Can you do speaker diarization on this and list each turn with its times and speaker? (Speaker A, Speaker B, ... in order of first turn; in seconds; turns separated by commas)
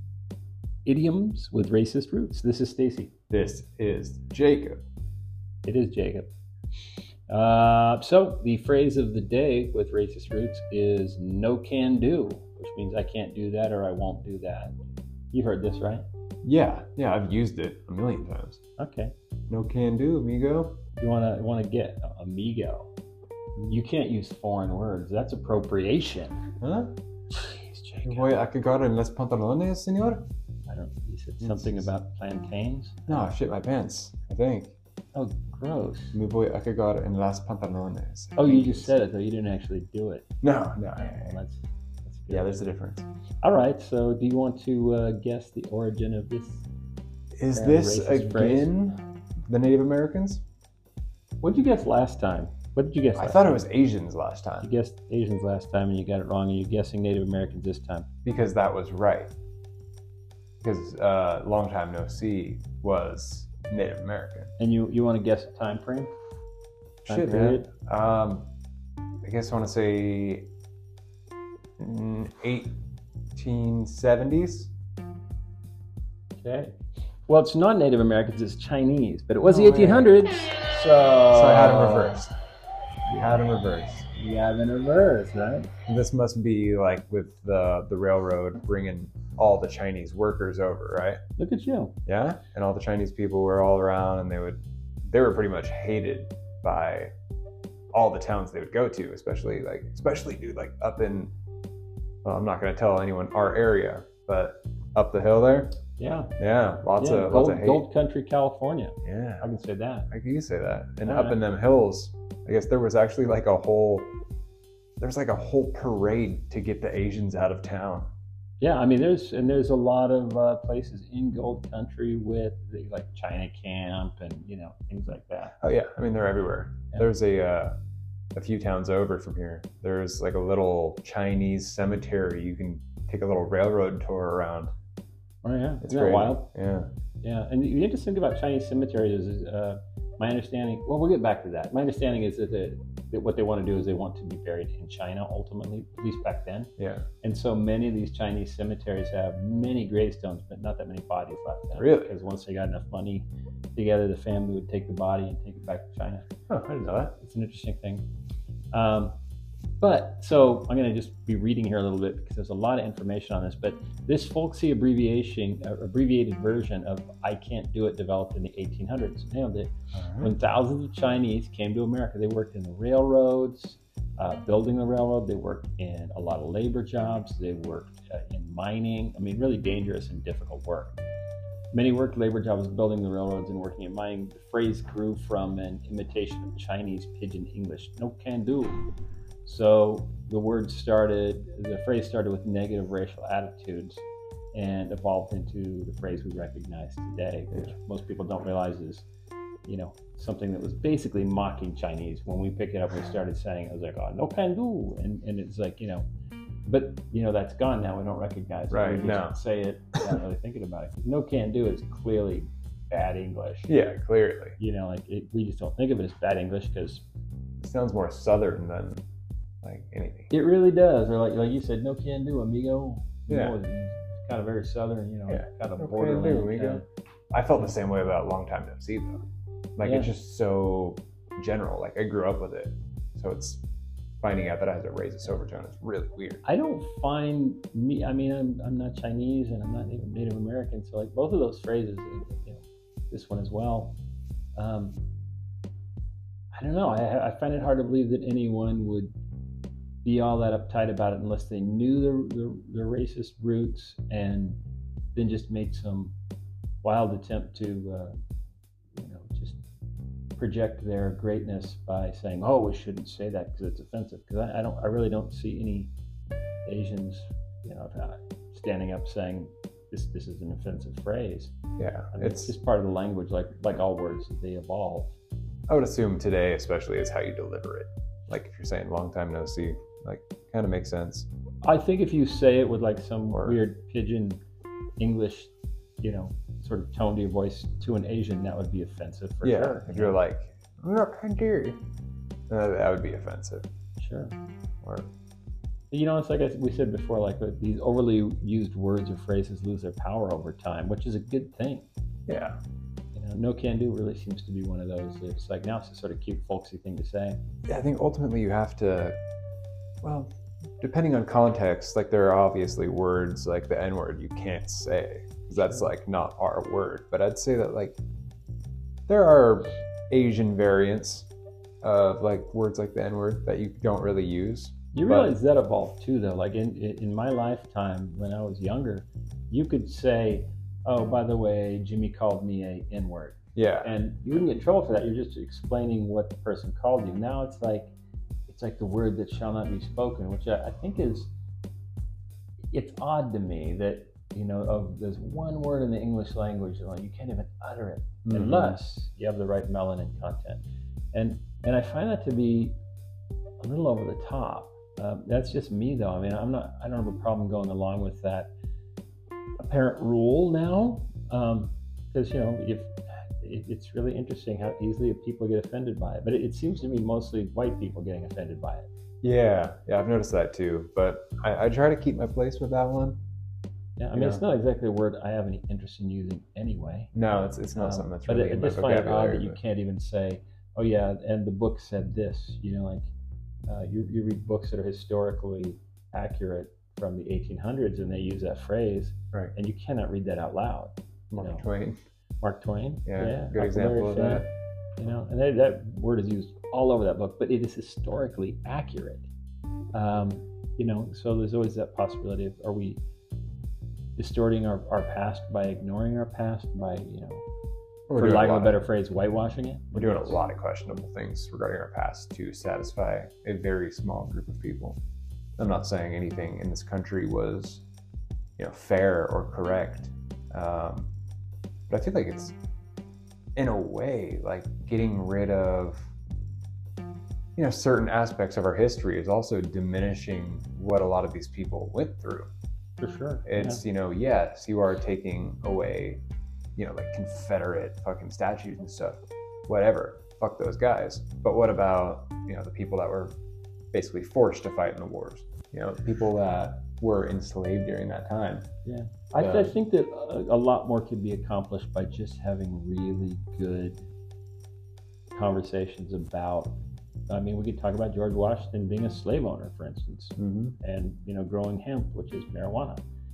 Speaker A: 0.8-3.1, Speaker B: 3.3-4.8, Speaker A: 5.7-6.3, Speaker A: 7.3-14.8, Speaker A: 15.3-16.0, Speaker B: 16.4-18.6, Speaker A: 18.8-19.1, Speaker B: 19.5-20.8, Speaker A: 21.0-22.9, Speaker A: 23.6-26.4, Speaker B: 26.6-27.0, Speaker A: 27.3-28.3, Speaker B: 28.0-30.3, Speaker A: 30.7-33.0, Speaker B: 31.4-31.9, Speaker B: 33.1-34.8, Speaker A: 35.1-36.2, Speaker B: 36.1-38.9, Speaker A: 38.4-40.3, Speaker B: 40.4-41.4, Speaker A: 41.0-42.6, Speaker B: 42.3-43.1, Speaker A: 43.4-46.7, Speaker B: 47.4-50.4, Speaker A: 47.5-48.7, Speaker A: 51.4-53.6, Speaker B: 53.1-54.7, Speaker A: 54.6-58.1, Speaker B: 58.2-59.3, Speaker B: 60.6-64.5, Speaker A: 64.6-66.1, Speaker B: 67.1-68.5, Speaker A: 67.1-67.7, Speaker B: 69.2-70.5, Speaker B: 71.8-72.8, Speaker B: 73.4-74.7, Speaker A: 76.4-76.8, Speaker A: 77.3-82.2, Speaker B: 79.5-80.1, Speaker B: 81.3-82.3, Speaker A: 83.1-83.3, Speaker B: 83.1-84.1, Speaker A: 84.1-85.7, Speaker B: 85.9-91.2, Speaker A: 91.4-92.0, Speaker B: 92.1-97.1, Speaker B: 97.9-101.3, Speaker B: 102.2-105.8, Speaker A: 106.0-106.3, Speaker B: 106.4-107.8, Speaker A: 107.0-110.1, Speaker B: 109.0-109.5, Speaker B: 110.1-114.1, Speaker A: 111.0-111.4, Speaker B: 115.0-118.1, Speaker A: 118.6-125.6, Speaker B: 125.6-127.8, Speaker B: 128.3-134.7, Speaker A: 135.4-136.5, Speaker B: 135.8-136.9, Speaker A: 137.2-146.7, Speaker B: 146.8-147.1, Speaker A: 147.2-156.3, Speaker B: 151.8-152.1, Speaker B: 156.5-157.2, Speaker A: 157.2-158.1, Speaker A: 158.7-159.1, Speaker A: 159.8-181.0, Speaker B: 169.9-170.3, Speaker A: 181.7-188.8, Speaker A: 189.4-194.0, Speaker A: 194.5-199.1, Speaker A: 199.7-206.1, Speaker A: 206.7-213.7, Speaker B: 208.7-209.4, Speaker B: 213.7-214.6, Speaker A: 214.6-217.0, Speaker B: 217.6-219.0, Speaker B: 219.6-220.3, Speaker A: 220.3-226.8, Speaker B: 223.3-223.6, Speaker B: 225.3-229.2, Speaker B: 229.8-233.6, Speaker A: 229.8-230.1, Speaker B: 234.2-236.4, Speaker A: 236.4-244.0, Speaker A: 244.6-245.0, Speaker A: 246.5-249.1, Speaker A: 250.0-254.6, Speaker A: 255.2-256.1, Speaker A: 256.8-258.1, Speaker A: 258.9-259.6, Speaker A: 260.4-265.9, Speaker A: 266.7-271.6, Speaker B: 271.8-272.5, Speaker A: 272.1-275.2, Speaker B: 275.7-281.3, Speaker A: 281.6-284.4, Speaker B: 283.3-283.6, Speaker A: 285.0-290.2, Speaker B: 289.4-291.8, Speaker B: 292.5-293.7, Speaker A: 294.0-294.4, Speaker B: 294.8-295.1, Speaker A: 295.9-301.9, Speaker B: 302.3-302.6, Speaker A: 303.1-307.4, Speaker B: 307.7-309.2, Speaker B: 310.0-318.0, Speaker A: 315.6-315.8, Speaker B: 319.1-321.3, Speaker B: 321.8-325.4, Speaker A: 324.9-337.9, Speaker B: 333.6-333.9, Speaker A: 338.5-341.3, Speaker A: 342.7-350.6, Speaker B: 348.3-348.8, Speaker A: 351.1-352.8, Speaker A: 353.6-358.5, Speaker A: 359.6-368.9, Speaker B: 369.2-373.2, Speaker A: 374.0-377.1, Speaker B: 374.1-374.4, Speaker B: 377.1-379.6, Speaker A: 377.8-383.1, Speaker A: 383.7-391.7, Speaker B: 391.3-392.0, Speaker A: 392.4-394.5, Speaker B: 393.1-394.5, Speaker A: 395.0-399.3, Speaker A: 399.9-403.0, Speaker A: 404.2-407.4, Speaker B: 408.1-408.8, Speaker A: 408.1-410.4, Speaker B: 409.9-415.0, Speaker B: 415.6-417.8, Speaker B: 418.6-421.1, Speaker B: 421.9-422.6, Speaker B: 423.6-426.1, Speaker B: 427.6-432.5, Speaker A: 433.0-433.8, Speaker B: 433.5-436.2, Speaker B: 436.8-443.3, Speaker B: 443.9-448.7, Speaker A: 448.9-454.1, Speaker B: 449.4-449.8, Speaker A: 455.3-456.8, Speaker A: 457.3-463.0, Speaker B: 460.4-460.8